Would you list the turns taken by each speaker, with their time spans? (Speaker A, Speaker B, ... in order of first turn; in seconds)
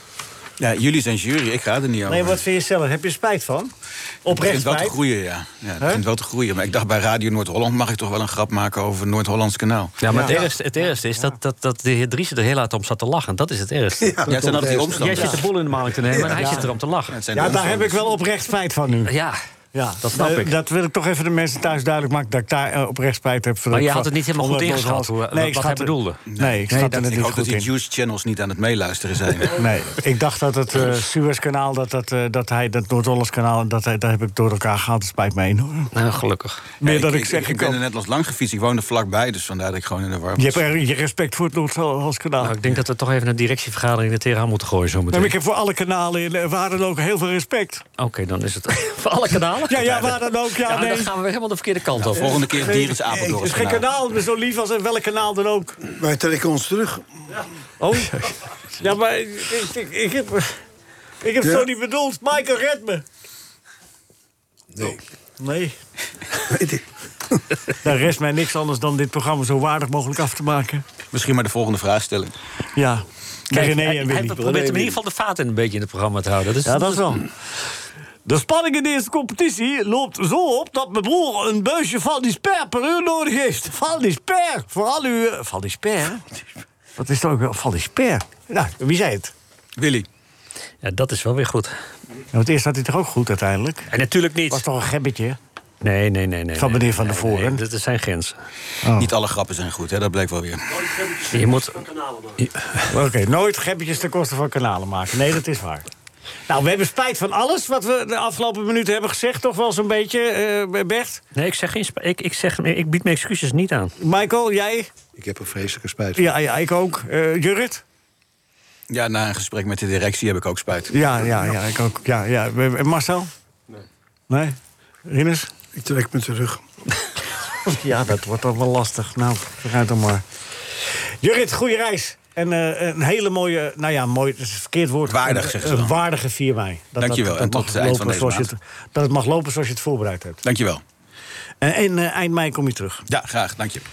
Speaker A: 0.6-2.4, 4.3-10.0, 14.3-15.4, 17.1-18.1, 26.3-29.6, 36.8-40.6, 52.1-53.8, 71.1-72.3, 89.8-90.1, 99.0-100.8, 118.9-120.9, 135.1-135.9, 137.0-138.5, 140.4-140.8, 143.1-143.8
Speaker B: 2.1-3.7, 4.2-5.0, 10.1-11.3, 16.3-16.7, 17.3-19.1, 19.7-27.7, 29.5-35.9, 36.8-37.8, 40.4-42.7, 45.1-47.8, 49.6-51.1, 52.5-55.8, 57.8-58.2, 58.8-60.6, 61.2-63.0, 65.4-65.8, 67.8-70.8, 72.8-74.4, 76.6-77.3, 78.2-86.2, 87.0-89.3, 92.3-93.9, 94.5-95.4, 96.5-97.6, 98.8-99.1, 102.8-105.8, 106.5-111.2, 114.0-114.9, 116.2-117.8, 120.9-123.3, 124.3-125.5, 127.7-130.2, 131.2-140.4, 141.6-143.1
Speaker C: 10.0-14.2, 15.0-17.2, 19.0-19.4, 20.0-20.6, 23.7-26.2, 35.9-36.7, 42.4-45.3, 48.0-52.4, 73.5-77.2, 90.8-91.7, 93.9-94.6, 95.8-98.4, 101.2-102.5, 111.3-113.9
Speaker D: 14.0-15.0, 56.0-57.0, 66.5-66.8, 125.8-126.6
Speaker E: 64.7-65.0, 74.4-75.0, 115.2-116.3